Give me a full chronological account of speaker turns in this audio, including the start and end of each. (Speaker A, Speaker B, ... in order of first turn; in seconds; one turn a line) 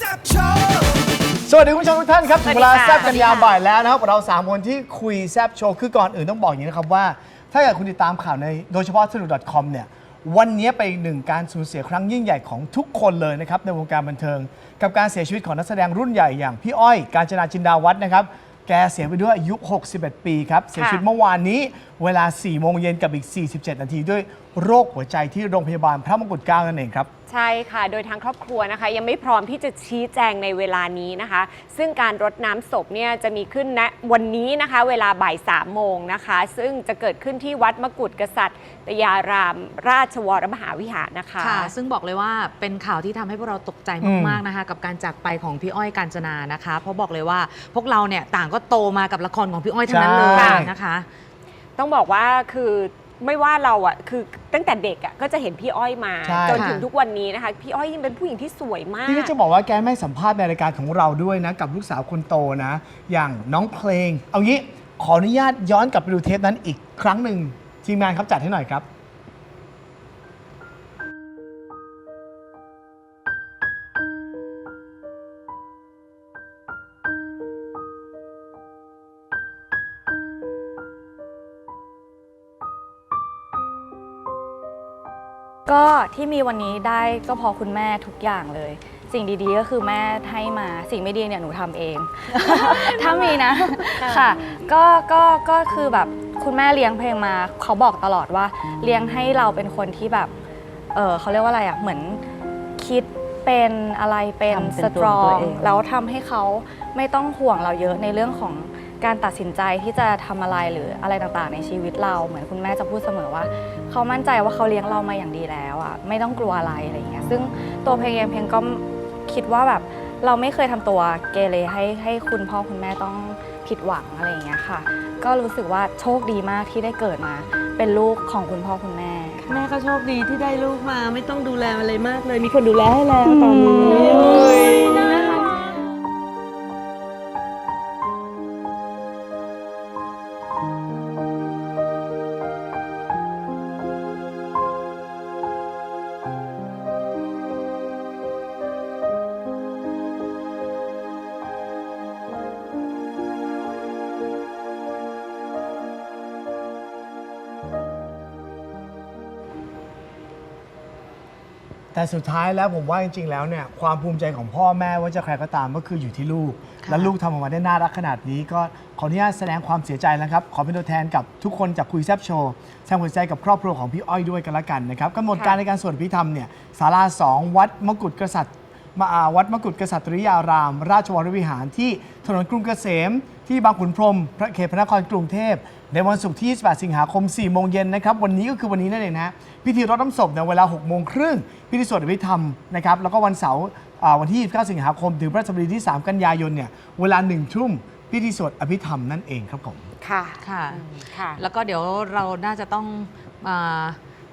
Speaker A: 1.4-27.1
Speaker B: 2.4-3.3
Speaker C: 3.0-3.4
Speaker B: 20.7-21.0
Speaker B: 27.3-41.7
Speaker C: 41.4-51.1
Speaker A: 44.0-44.4
Speaker A: 49.9-50.7
Speaker B: 50.3-50.7
Speaker B: 51.8-59.3
Speaker A: 56.2-56.7
Speaker C: 56.5-56.8
Speaker A: 59.0-68.8
Speaker D: 85.7-100.3
Speaker B: 94.0-94.3
Speaker D: 100.9-102.2
Speaker D: 102.8-129.5
Speaker E: 104.7-105.6
Speaker E: 129.4-135.4
Speaker D: 133.2-135.4
Speaker A: 161.9-199.9
Speaker B: 200.0-201.4
Speaker C: 200.4-204.0